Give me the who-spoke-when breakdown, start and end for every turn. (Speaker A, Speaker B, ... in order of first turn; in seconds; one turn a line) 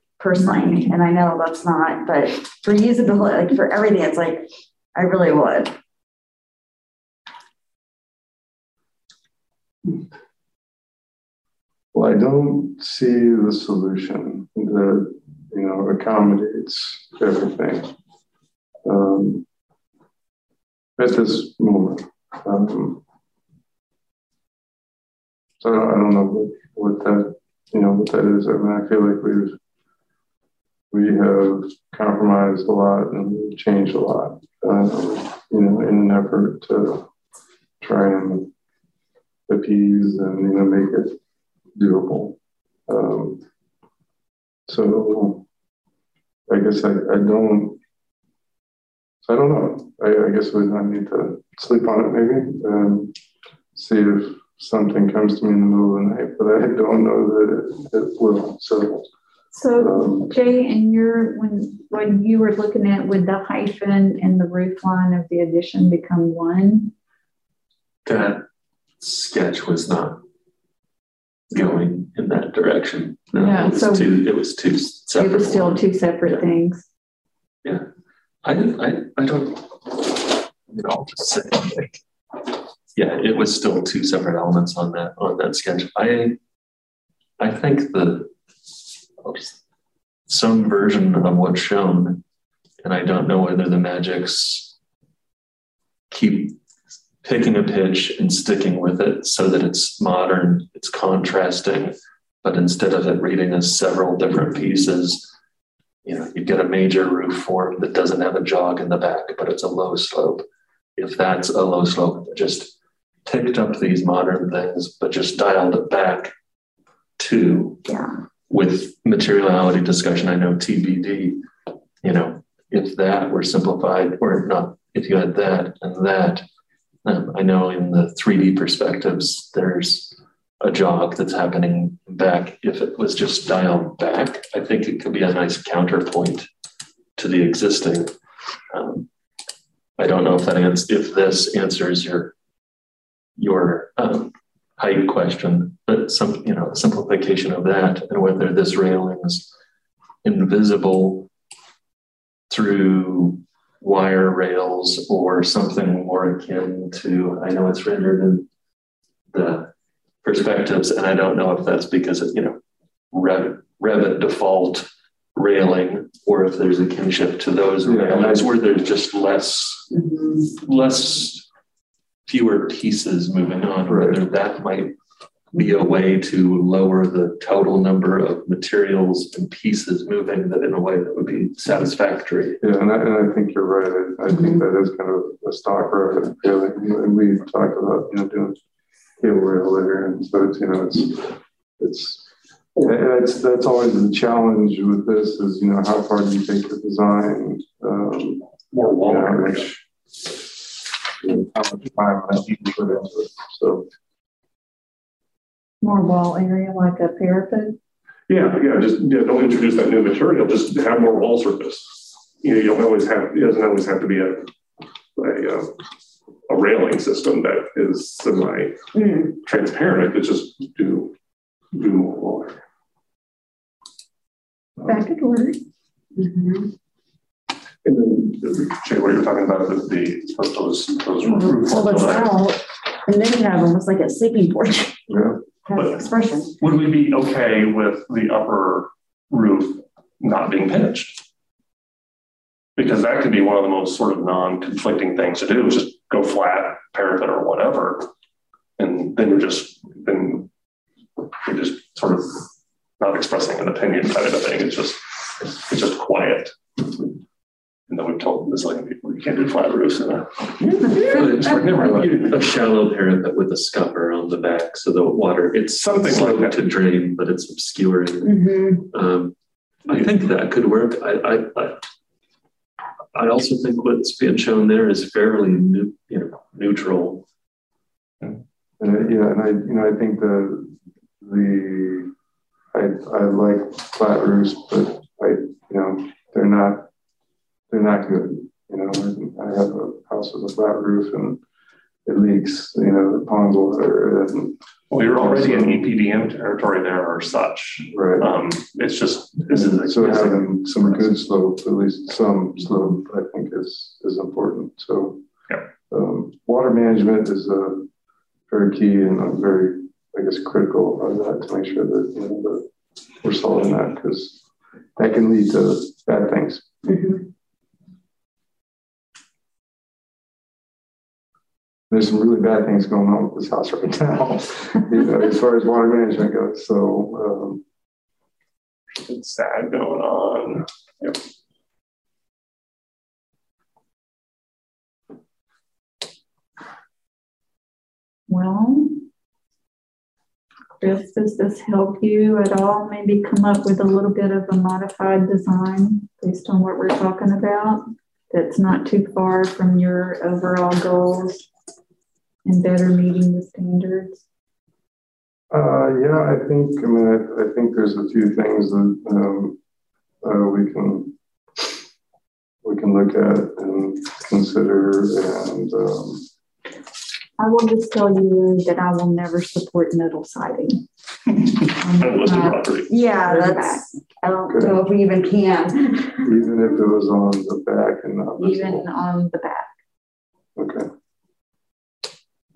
Speaker A: 0.2-5.7
Speaker B: 0.4-0.9
Speaker C: 11.9-17.9
Speaker C: 18.8-19.4
Speaker C: 21.0-23.0
Speaker C: 25.6-29.6
Speaker C: 30.9-37.1
Speaker C: 37.8-38.5
Speaker C: 39.5-41.2
Speaker C: 41.8-43.4
Speaker C: 44.7-45.4
Speaker C: 46.5-47.8
Speaker C: 49.2-53.1
Speaker C: 53.7-59.1
Speaker B: 59.5-66.9
Speaker C: 59.8-60.3
Speaker D: 68.0-68.4
Speaker D: 69.0-70.2
Speaker D: 71.5-76.4
Speaker B: 73.3-74.1
Speaker B: 75.2-76.8
Speaker D: 78.4-82.0
Speaker D: 82.9-86.4
Speaker D: 87.4-89.6
Speaker D: 90.3-92.2
Speaker D: 92.8-94.8
Speaker D: 96.1-96.6
Speaker D: 97.2-105.3
Speaker D: 106.0-110.4
Speaker D: 111.0-112.7
Speaker D: 113.2-116.3
Speaker D: 117.2-117.8
Speaker D: 118.5-121.4
Speaker D: 122.0-126.4
Speaker D: 127.0-136.5
Speaker D: 137.2-138.1
Speaker D: 138.7-139.1
Speaker D: 140.0-142.3
Speaker D: 143.4-149.5
Speaker D: 150.2-151.3
Speaker D: 152.5-158.5
Speaker D: 159.3-159.7
Speaker D: 160.2-162.6
Speaker D: 163.1-169.9
Speaker C: 167.8-168.5
Speaker A: 169.9-170.4
Speaker D: 170.4-171.4
Speaker D: 172.2-174.9
Speaker C: 173.9-174.2
Speaker D: 175.5-182.6
Speaker C: 182.6-188.6
Speaker A: 184.3-184.6
Speaker C: 189.2-198.5
Speaker E: 198.7-199.7
Speaker C: 199.1-199.8
Speaker C: 201.2-203.9
Speaker B: 205.8-207.8
Speaker E: 208.3-214.5
Speaker E: 215.2-215.7
Speaker E: 216.5-218.8
Speaker A: 218.9-219.3
Speaker E: 219.3-221.1
Speaker E: 221.7-222.6
Speaker B: 224.8-225.6
Speaker A: 226.1-226.7
Speaker E: 227.8-232.4
Speaker A: 231.2-235.1
Speaker C: 235.1-235.4
Speaker A: 235.7-236.5
Speaker E: 235.7-236.0
Speaker E: 236.6-241.2
Speaker E: 242.8-248.1
Speaker E: 248.8-250.5
Speaker E: 251.4-252.5
Speaker E: 253.0-257.0
Speaker E: 257.9-262.3
Speaker D: 261.0-269.3
Speaker E: 265.8-266.6
Speaker A: 268.2-268.9
Speaker D: 269.9-271.8
Speaker D: 273.1-277.2
Speaker C: 278.8-282.1
Speaker C: 282.7-286.9
Speaker C: 287.7-291.4
Speaker C: 292.1-295.9
Speaker E: 294.9-300.5
Speaker C: 297.9-298.3
Speaker C: 299.5-305.2
Speaker C: 305.9-307.9
Speaker C: 308.5-312.7
Speaker C: 313.2-314.4
Speaker C: 314.9-316.7
Speaker A: 316.8-317.2
Speaker C: 321.9-327.6
Speaker E: 328.9-331.2
Speaker B: 338.3-339.0
Speaker B: 340.8-351.5
Speaker B: 352.4-354.2
Speaker C: 355.5-359.6
Speaker C: 360.2-361.6
Speaker C: 362.6-366.2
Speaker B: 367.4-372.6
Speaker E: 372.0-372.9
Speaker A: 372.9-376.3
Speaker B: 373.2-373.9
Speaker C: 374.5-374.8
Speaker C: 376.2-378.9
Speaker B: 378.4-379.7
Speaker C: 380.6-380.9